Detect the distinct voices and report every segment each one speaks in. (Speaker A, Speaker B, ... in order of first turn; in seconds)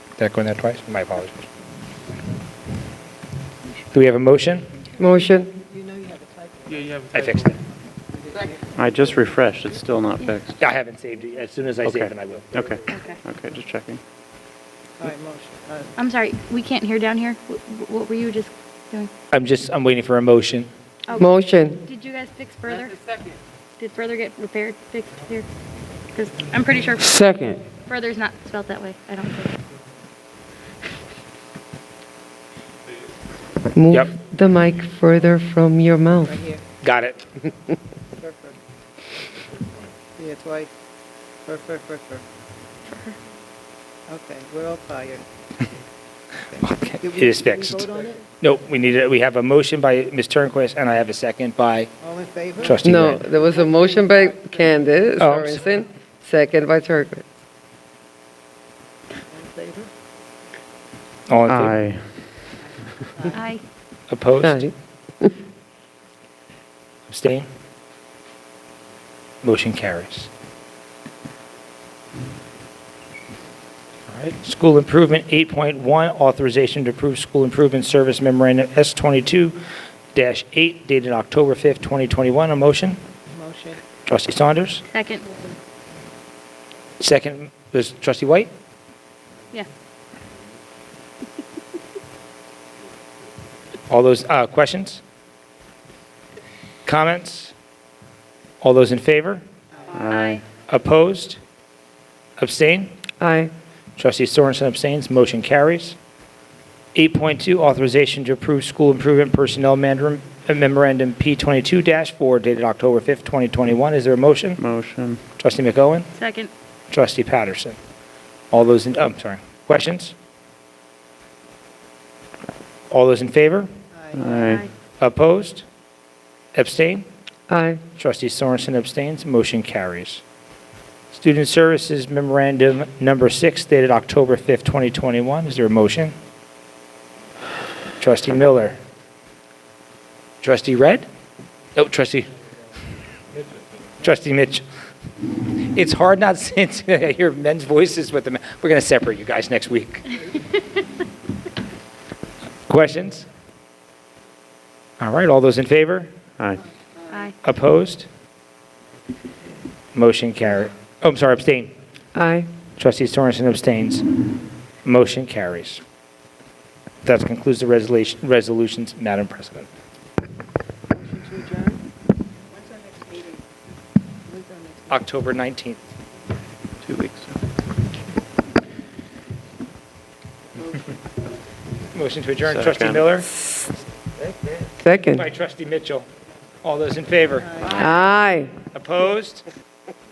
Speaker A: 0.2-1.5, 3.9-4.7, 7.1-7.6, 10.6-12.6, 19.3-20.7, 36.8-37.3, 46.6-47.9, 48.4-51.9, 52.6-53.2, 55.2-55.5, 61.3-61.8, 64.1-64.6, 67.1-67.5, 69.4-70.3, 74.1-79.6, 80.1-83.0, 84.1-84.8, 87.0-88.5, 93.9-95.0, 96.9-97.5, 98.6-99.4, 100.7-101.4, 102.4-102.9, 104.0-106.0, 107.0-114.6, 115.4-116.1, 116.9-117.8, 118.5-120.2, 122.9-123.7, 125.0-125.7, 126.5-127.1, 128.0-130.2, 131.1-136.2, 138.0-138.8, 140.4-141.1, 141.8-142.3, 144.0-144.7, 145.7-150.1, 152.7-153.3, 155.0-156.1, 157.4-158.1, 159.9-161.7, 162.8-164.1, 164.8-165.8, 167.0-169.7, 174.9-175.8, 181.9-183.3, 185.1-186.1, 186.6-187.7, 188.7-189.4
Speaker B: 5.0-5.5, 21.2-21.8, 33.7-36.4, 52.8-57.2, 64.4-65.3, 103.2-103.5, 127.5-127.8, 162.2-162.5, 184.8-185.2, 187.7-188.5
Speaker C: 5.6-7.1, 15.0-15.9, 36.3-36.6, 38.2-38.6, 40.2-40.7, 41.5-42.2, 44.1-45.2, 47.0-48.2, 52.0-54.5, 59.3-59.9, 83.3-83.8, 124.0-124.6, 171.0-171.8, 172.6-173.4, 174.3-174.9, 187.6-187.8
Speaker D: 8.8-10.6, 11.8-14.0, 61.5-62.0, 99.9-100.4, 114.6-115.2, 124.2-124.6, 176.8-177.4, 182.5-183.1
Speaker E: 12.9-13.2, 16.0-19.1, 21.1-21.3, 21.8-23.0, 23.8-25.5, 26.1-27.2, 27.8-29.6, 63.3-63.6, 84.9-85.2, 100.0-100.4, 116.2-116.5, 124.4-124.7